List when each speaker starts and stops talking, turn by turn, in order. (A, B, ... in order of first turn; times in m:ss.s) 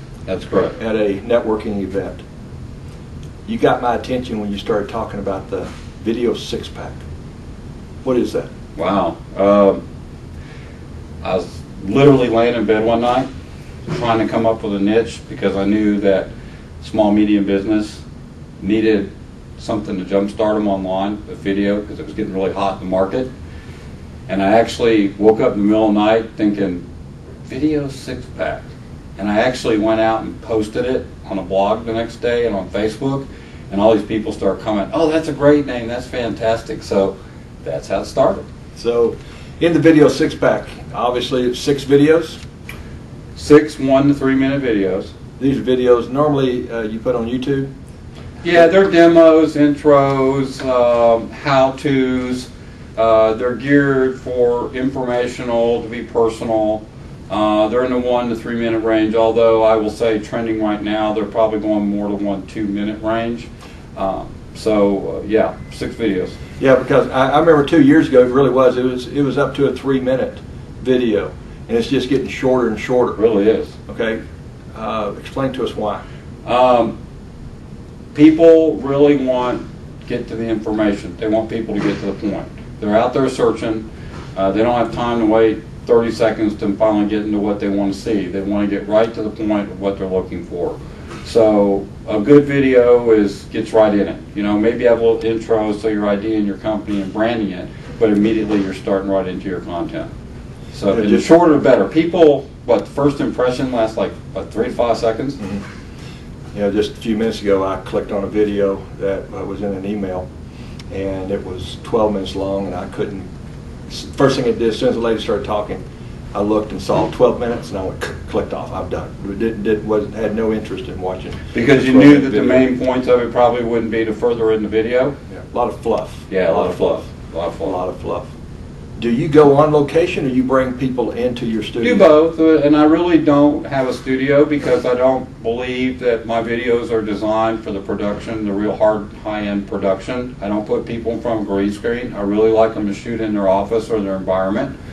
0:00.3-0:00.8 A
0:00.8-0:02.2 B
0:03.4-0:07.0 B
0:08.0-0:08.5 B
0:08.8-0:09.8 A
0:11.2-0:13.3 A
0:13.9-0:18.0 A
0:18.6-0:23.3 A
0:24.3-0:26.8 A
0:27.4-0:38.4 A
0:38.8-0:42.4 B
0:43.3-0:45.1 A
0:45.4-0:47.7 B
0:48.4-1:06.4 A
1:06.6-1:13.2 B
1:13.2-1:13.7 A
1:13.9-1:14.2 B
1:14.7-1:16.0 B
1:16.4-1:17.0 A
1:18.1-1:40.1 A
1:40.7-1:45.4 A
1:40.9-1:41.3 B
1:46.5-1:50.2 B
1:50.9-1:53.3 B
1:53.9-2:02.7 B
2:01.5-2:05.1 A
2:05.3-2:07.0 B
2:06.3-2:07.8 A
2:07.6-2:08.3 B
2:09.0-2:12.1 B
2:11.8-2:24.7 A